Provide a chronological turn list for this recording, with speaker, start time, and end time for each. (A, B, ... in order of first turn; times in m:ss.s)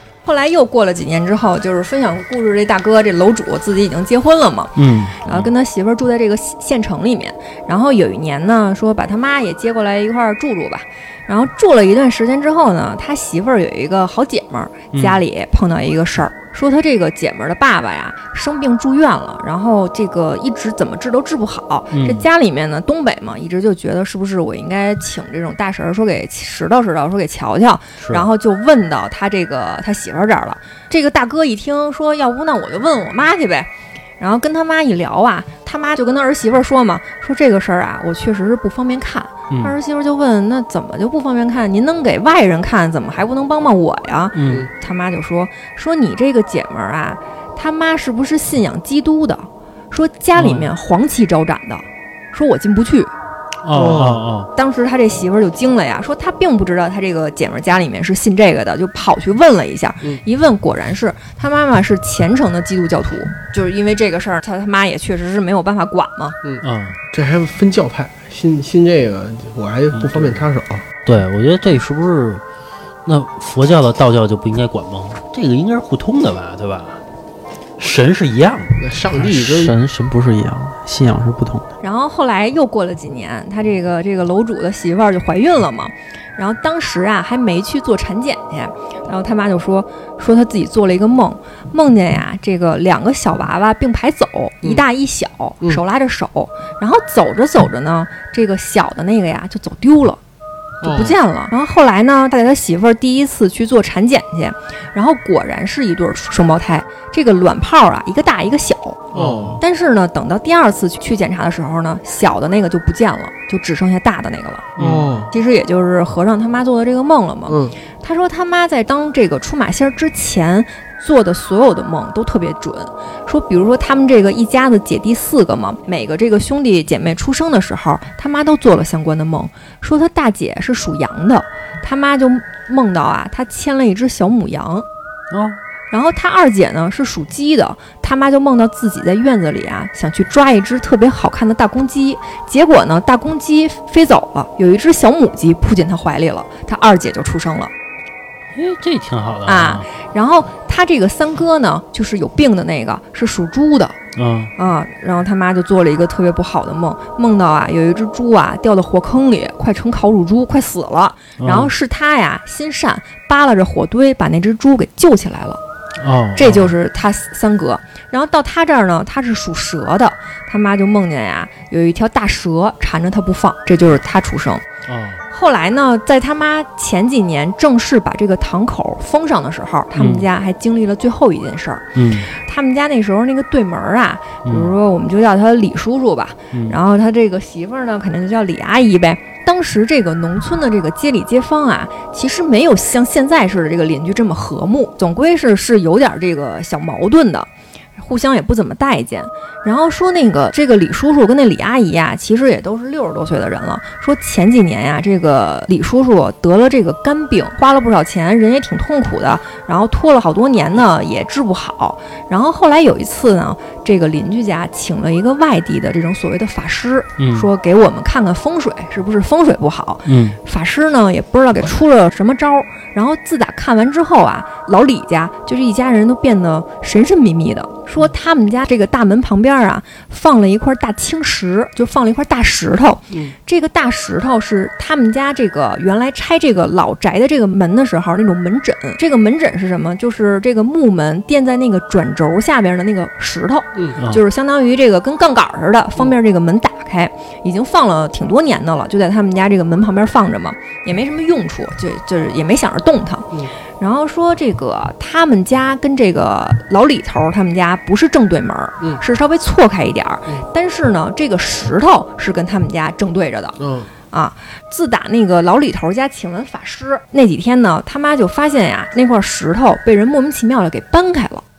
0:00.2-0:53.1 A
0:04.8-0:05.5 B
0:14.9-0:15.2 B
0:21.9-0:22.2 B
0:28.0-0:28.3 B
0:39.5-0:39.8 B
0:44.4-0:44.7 B
0:50.4-0:50.7 B
0:53.6-0:54.5 B
0:53.7-0:54.2 C
0:54.6-1:06.4 A
1:06.4-1:10.8 C
1:06.6-1:07.0 B
1:10.0-1:10.4 B
1:11.0-1:12.4 B
1:13.1-1:17.0 B
1:17.8-1:18.8 B
1:18.8-1:19.8 C
1:19.1-1:21.7 D
1:21.8-1:40.2 A
1:40.8-1:41.2 C
1:40.8-1:54.7 A
1:49.1-1:49.6 C
1:49.2-1:49.6 B
1:54.8-1:55.2 B
1:54.8-1:55.3 C
1:55.3-2:14.9 A
1:57.5-1:57.8 C
2:15.3-2:15.6 B
2:15.9-2:27.7 A
2:28.6-2:29.9 B
2:29.5-2:34.0 A
2:34.2-2:34.5 B
2:34.6-2:45.6 A
2:41.4-2:41.7 B
2:46.0-2:46.7 B
2:46.4-2:54.6 A
2:54.9-2:55.2 B
2:55.3-4:23.6 A
3:00.0-3:00.3 B
3:02.0-3:02.3 B
3:04.5-3:04.7 B
3:37.2-3:37.5 B
3:40.1-3:40.4 B
4:23.6-4:23.9 C
4:24.1-4:31.4 A